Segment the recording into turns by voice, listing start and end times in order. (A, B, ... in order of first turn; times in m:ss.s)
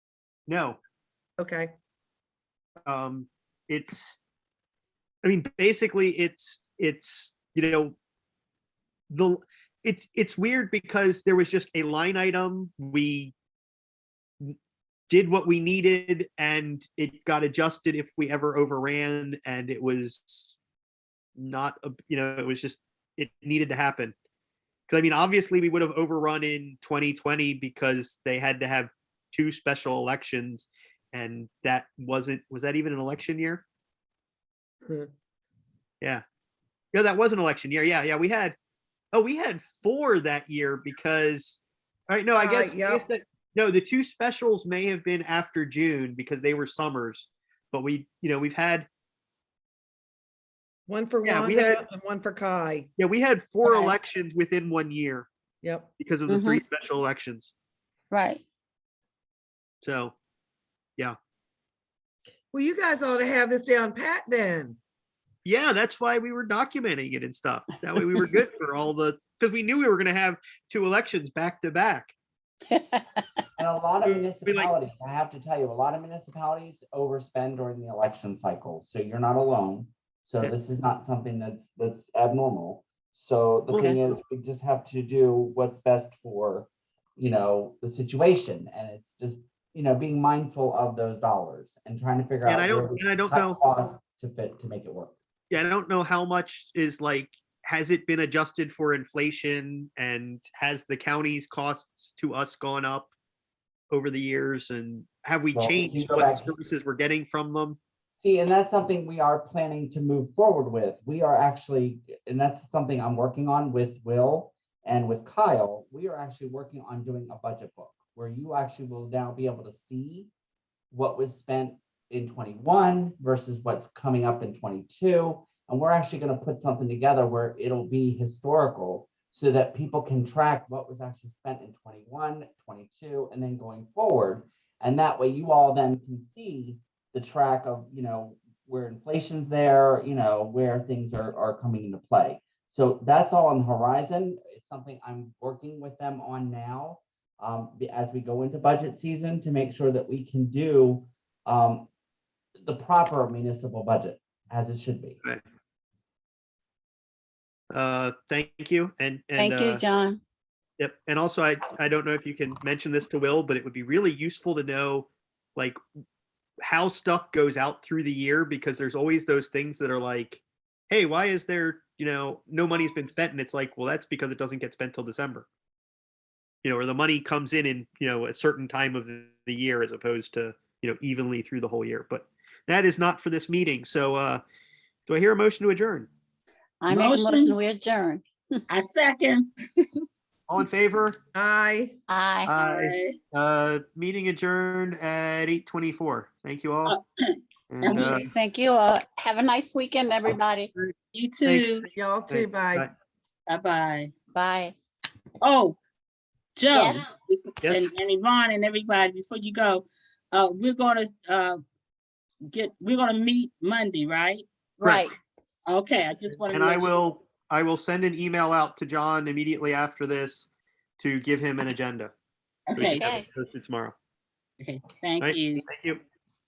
0:00.5-0:00.8 A
0:01.4-0:01.7 B
0:02.9-0:04.2 A
0:05.2-0:08.0 A
0:09.1-0:13.3 A
0:15.1-0:20.6 A
0:21.4-0:24.1 A
0:24.9-0:33.6 A
0:36.9-0:38.6 A
0:39.1-0:48.9 A
0:42.3-0:43.0 B
0:50.9-0:52.9 B
0:51.2-0:51.8 A
0:53.0-0:55.3 A
0:53.6-0:54.0 C
0:55.6-0:55.9 B
0:56.0-0:57.5 A
0:56.3-0:56.6 C
0:58.1-0:58.4 C
0:59.8-1:00.1 A
1:02.5-1:04.8 B
1:05.4-1:12.1 A
1:12.7-1:13.2 C
1:13.6-1:35.1 D
1:14.0-1:14.7 A
1:23.7-1:24.0 A
1:32.4-1:33.6 A
1:35.5-1:43.1 A
1:43.9-1:47.8 A
1:45.5-1:46.5 D
1:48.2-2:00.3 D
2:00.9-2:31.9 D
2:32.6-2:35.2 D
2:37.7-2:39.8 A
2:39.4-2:40.2 C
2:40.8-2:45.8 A
2:46.6-2:55.4 A
2:56.6-3:04.4 A
3:05.1-3:06.1 A
3:06.8-3:08.6 C
3:06.9-3:07.6 E
3:08.7-3:10.0 E
3:10.5-3:11.2 A
3:11.3-3:12.0 B
3:12.1-3:12.5 C
3:12.4-3:17.0 A
3:12.6-3:13.2 E
3:16.9-3:18.3 E
3:17.7-3:18.3 A
3:17.9-3:20.7 C
3:20.8-3:21.8 A
3:21.1-3:21.9 E
3:21.9-3:22.8 B
3:22.3-3:22.9 A
3:23.5-3:24.1 E
3:24.3-3:24.8 C
3:25.4-3:25.8 E
3:26.6-3:31.6 E
3:26.7-3:27.0 C
3:27.6-3:27.9 A
3:32.5-3:34.4 E
3:34.8-3:35.1 C
3:34.8-3:35.1 A
3:35.6-3:36.9 E
3:36.5-3:40.5 A
3:41.0-3:42.1 A
3:42.7-3:43.1 E
3:42.8-3:43.9 A
3:43.0-3:43.2 C
3:44.6-3:45.6 E
3:45.2-3:46.0 A